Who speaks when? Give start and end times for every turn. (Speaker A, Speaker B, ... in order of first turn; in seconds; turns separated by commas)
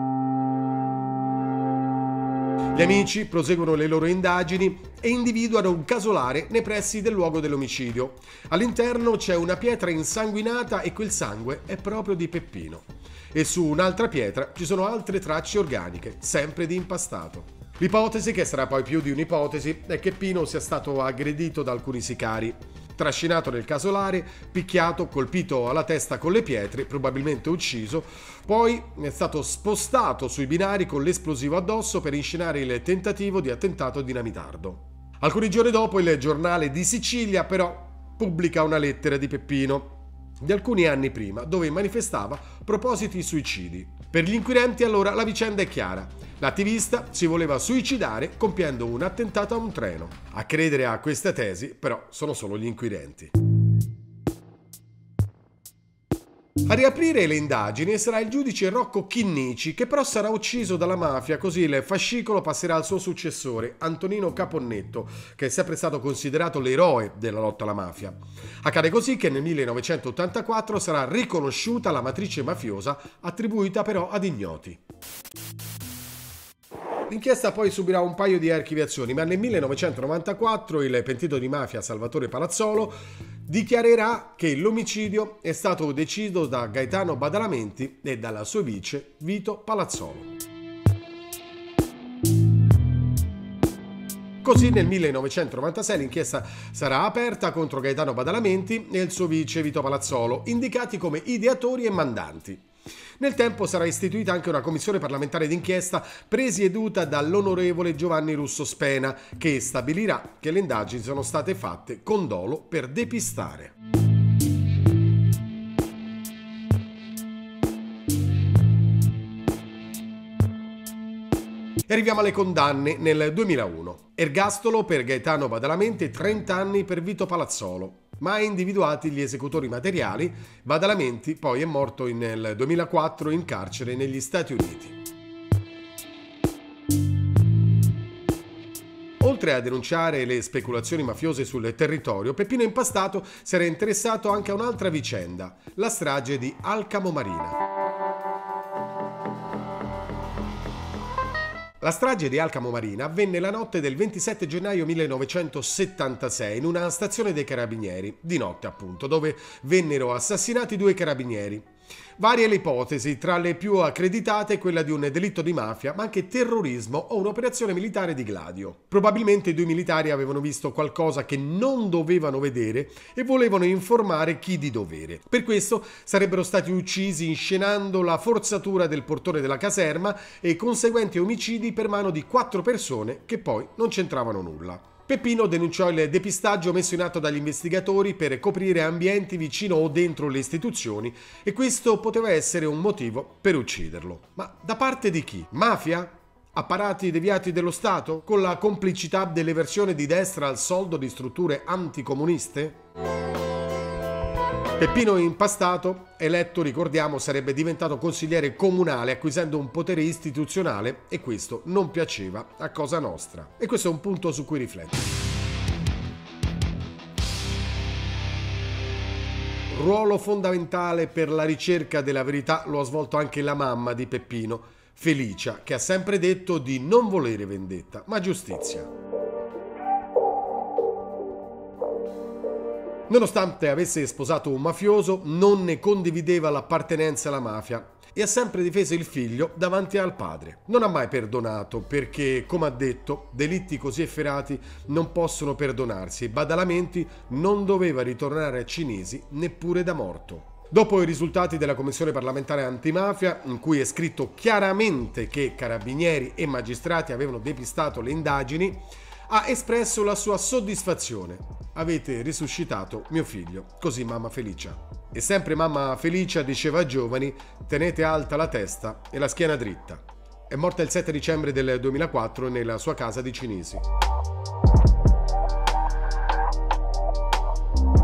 Speaker A: 2.7-53.3, Speaker A: 56.7-74.8, Speaker A: 77.1-90.3, Speaker A: 94.4-102.6, Speaker A: 103.2-113.7, Speaker A: 121.9-134.9, Speaker A: 139.2-147.6, Speaker A: 151.8-202.8, Speaker A: 204.8-215.1, Speaker A: 219.7-228.9, Speaker A: 233.1-273.8